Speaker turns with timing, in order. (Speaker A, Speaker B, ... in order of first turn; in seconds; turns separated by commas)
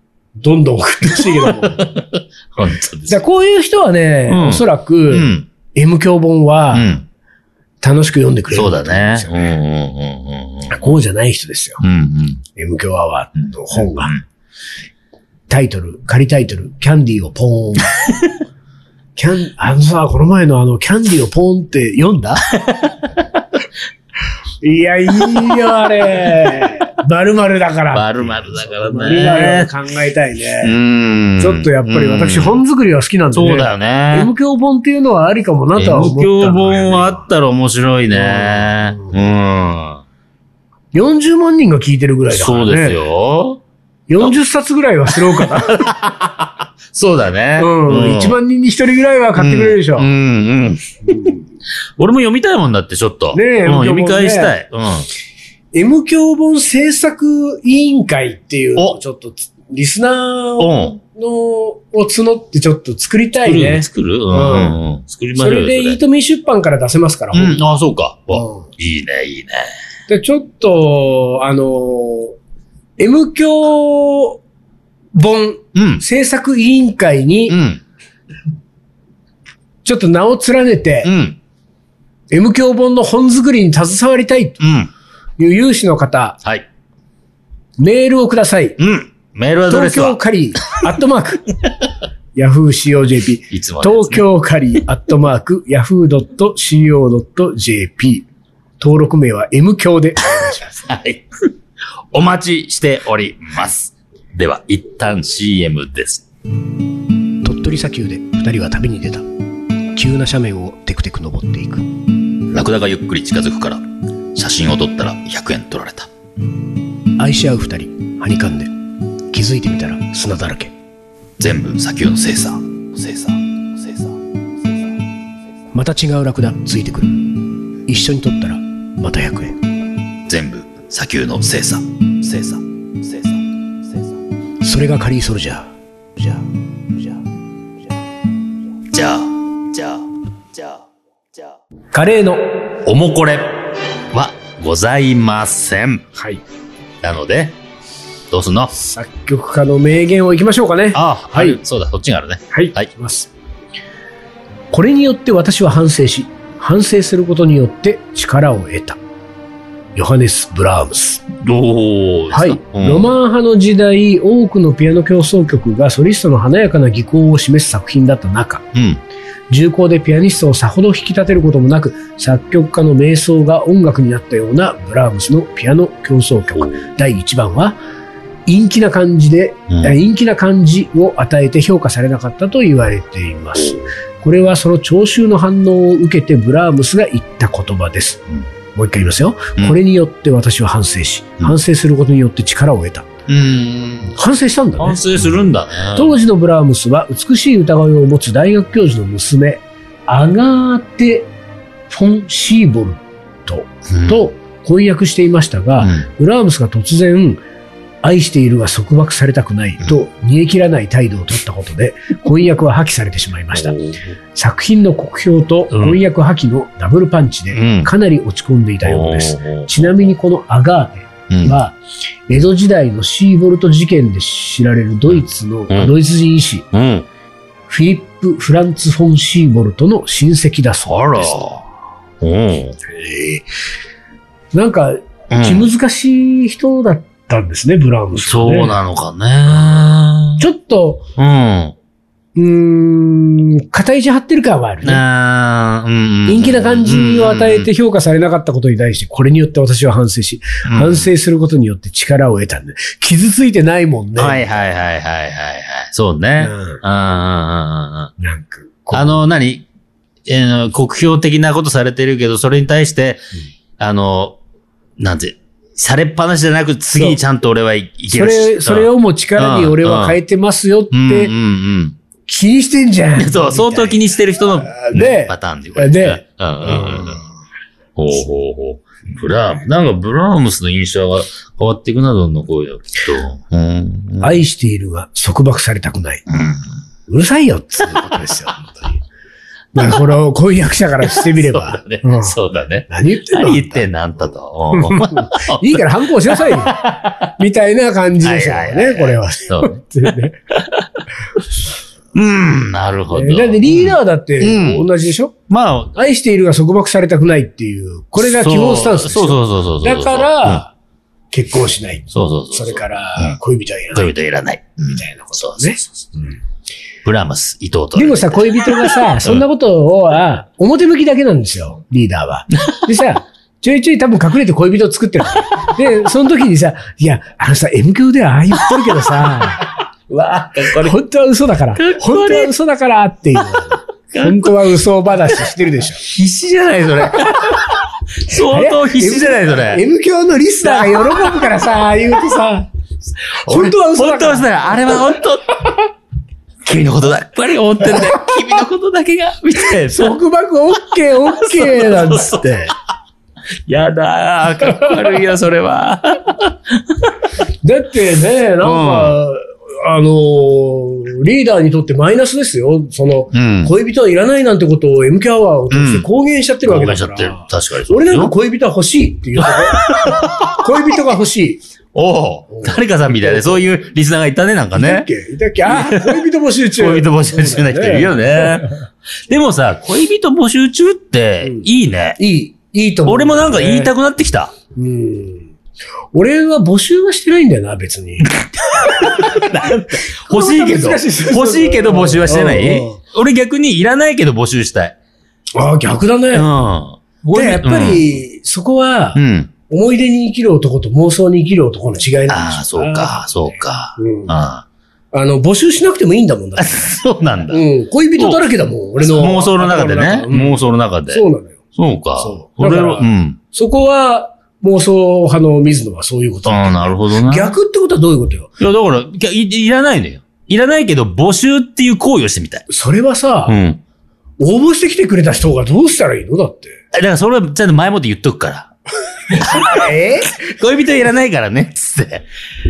Speaker A: 0.4-1.9, Speaker B: 1.2-3.2, Speaker A: 3.1-6.9, Speaker B: 4.3-5.5, Speaker B: 6.7-7.1, Speaker A: 7.8-9.5, Speaker B: 8.5-10.9, Speaker A: 10.7-11.8, Speaker B: 11.8-12.4, Speaker A: 12.6-14.2, Speaker B: 13.7-14.2, Speaker A: 15.5-17.9, Speaker B: 18.0-18.4, Speaker A: 19.2-22.5, Speaker B: 22.5-23.0, Speaker A: 24.6-30.8, Speaker B: 25.2-25.6, Speaker B: 26.2-26.5, Speaker B: 27.9-29.7, Speaker B: 30.6-32.6, Speaker A: 31.4-37.2, Speaker B: 33.3-34.3, Speaker B: 35.8-40.0, Speaker A: 38.1-39.2, Speaker A: 40.9-43.0, Speaker B: 42.3-43.6, Speaker A: 44.1-45.9, Speaker B: 45.1-48.4, Speaker A: 47.6-50.1, Speaker B: 49.4-51.3, Speaker A: 51.1-51.4, Speaker B: 52.0-55.1, Speaker A: 53.3-54.5, Speaker A: 55.7-64.8, Speaker B: 60.6-61.0, Speaker B: 63.5-66.0, Speaker A: 65.4-67.6, Speaker B: 67.3-69.7, Speaker A: 68.3-68.7, Speaker A: 70.1-72.4, Speaker A: 73.0-74.4, Speaker A: 75.1-77.6, Speaker B: 75.8-76.0, Speaker B: 77.5-77.8, Speaker A: 79.8-81.1, Speaker B: 81.0-81.4, Speaker A: 82.3-84.6, Speaker B: 84.6-84.9, Speaker A: 85.4-86.4, Speaker A: 87.8-88.8, Speaker B: 88.8-90.2, Speaker A: 89.7-91.5, Speaker A: 92.3-98.3, Speaker B: 93.5-94.2, Speaker A: 98.8-100.9, Speaker B: 100.9-101.2, Speaker B: 102.1-106.2, Speaker A: 107.4-109.2, Speaker A: 110.0-111.9, Speaker B: 112.5-113.8, Speaker B: 114.3-116.1, Speaker A: 117.2-118.7, Speaker A: 119.3-120.7, Speaker B: 121.4-124.2, Speaker A: 125.7-129.6, Speaker B: 130.3-134.0, Speaker A: 134.6-136.4, Speaker B: 138.9-141.5, Speaker A: 141.9-142.5, Speaker B: 142.8-143.6, Speaker B: 144.1-146.0, Speaker A: 146.2-146.4, Speaker B: 147.0-147.6, Speaker B: 148.3-148.7, Speaker A: 148.7-151.6, Speaker B: 150.9-152.9, Speaker A: 152.5-153.3, Speaker A: 154.7-159.0, Speaker A: 160.0-161.2, Speaker B: 161.4-163.1, Speaker A: 162.3-168.7, Speaker B: 168.7-169.0, Speaker A: 169.5-177.8, Speaker B: 176.6-176.8, Speaker A: 178.5-188.2, Speaker B: 179.7-179.9, Speaker A: 188.8-193.1, Speaker B: 193.3-194.2, Speaker A: 194.1-195.4, Speaker B: 194.8-196.2, Speaker A: 195.9-201.3, Speaker A: 201.9-207.4, Speaker B: 203.9-204.2, Speaker B: 205.8-206.1, Speaker A: 208.0-213.8, Speaker B: 213.5-214.1, Speaker A: 214.3-221.8, Speaker B: 215.7-216.0, Speaker B: 217.5-217.9, Speaker B: 218.8-219.8, Speaker B: 221.3-221.6, Speaker A: 222.3-226.7, Speaker B: 225.1-225.9, Speaker B: 226.7-227.1, Speaker A: 227.7-231.4, Speaker B: 230.9-231.7, Speaker B: 232.2-232.8, Speaker A: 232.9-233.4, Speaker A: 234.5-238.8, Speaker B: 235.3-235.7, Speaker B: 238.2-240.4, Speaker A: 240.4-241.1, Speaker B: 241.2-241.8, Speaker A: 242.4-245.0, Speaker B: 244.8-247.7, Speaker A: 246.2-254.5, Speaker B: 250.7-251.1, Speaker B: 254.2-258.1, Speaker A: 256.4-256.8, Speaker A: 258.2-259.2, Speaker B: 258.9-259.7, Speaker B: 260.2-263.2, Speaker B: 263.8-264.4, Speaker B: 265.0-270.2, Speaker A: 268.1-271.3, Speaker B: 270.9-272.0, Speaker A: 272.3-274.0, Speaker B: 273.2-277.2, Speaker A: 274.6-277.2, Speaker B: 278.0-284.4, Speaker A: 284.2-286.2, Speaker B: 286.3-286.7, Speaker A: 287.1-288.8, Speaker B: 288.0-288.3, Speaker A: 289.7-292.4, Speaker B: 291.1-297.2, Speaker A: 292.9-293.9, Speaker A: 294.7-300.4, Speaker B: 298.2-299.8, Speaker B: 302.1-304.9, Speaker A: 303.1-305.3, Speaker B: 305.5-305.9, Speaker A: 305.9-310.7, Speaker B: 308.2-310.6, Speaker A: 311.3-314.1, Speaker B: 312.1-313.4, Speaker B: 313.9-316.1, Speaker A: 314.9-316.4, Speaker B: 317.0-319.4, Speaker A: 317.9-329.7, Speaker B: 330.1-331.0, Speaker A: 330.8-336.0, Speaker B: 331.8-332.5, Speaker B: 333.6-334.5, Speaker B: 336.0-339.8, Speaker A: 337.2-337.6, Speaker A: 338.3-342.7, Speaker B: 340.6-341.4, Speaker A: 343.4-344.9, Speaker B: 343.4-345.7, Speaker B: 346.6-350.2, Speaker A: 349.9-352.7, Speaker B: 351.4-352.6, Speaker B: 353.7-357.1, Speaker A: 357.6-371.6, Speaker B: 358.6-359.2, Speaker B: 363.3-363.7, Speaker B: 365.7-366.1, Speaker B: 366.7-368.3, Speaker B: 369.4-370.7, Speaker B: 371.9-375.1, Speaker A: 372.5-373.7, Speaker A: 374.8-378.7, Speaker B: 375.7-378.7, Speaker B: 379.3-382.2, Speaker A: 381.4-383.9, Speaker B: 383.1-384.5, Speaker A: 384.8-385.5, Speaker A: 386.1-388.4, Speaker B: 388.3-395.0, Speaker A: 388.9-393.0, Speaker A: 395.6-396.5, Speaker B: 396.3-398.0, Speaker A: 397.3-404.4, Speaker B: 399.1-399.5, Speaker B: 402.3-404.7, Speaker A: 405.1-406.9, Speaker B: 406.6-407.6, Speaker A: 407.5-411.6, Speaker B: 409.0-411.2, Speaker B: 411.8-413.4, Speaker A: 412.2-418.5, Speaker B: 416.4-417.5, Speaker B: 418.6-422.7, Speaker A: 422.7-423.5, Speaker B: 423.5-423.8, Speaker A: 424.4-426.8, Speaker B: 426.9-428.7, Speaker B: 429.3-432.2, Speaker A: 429.3-430.4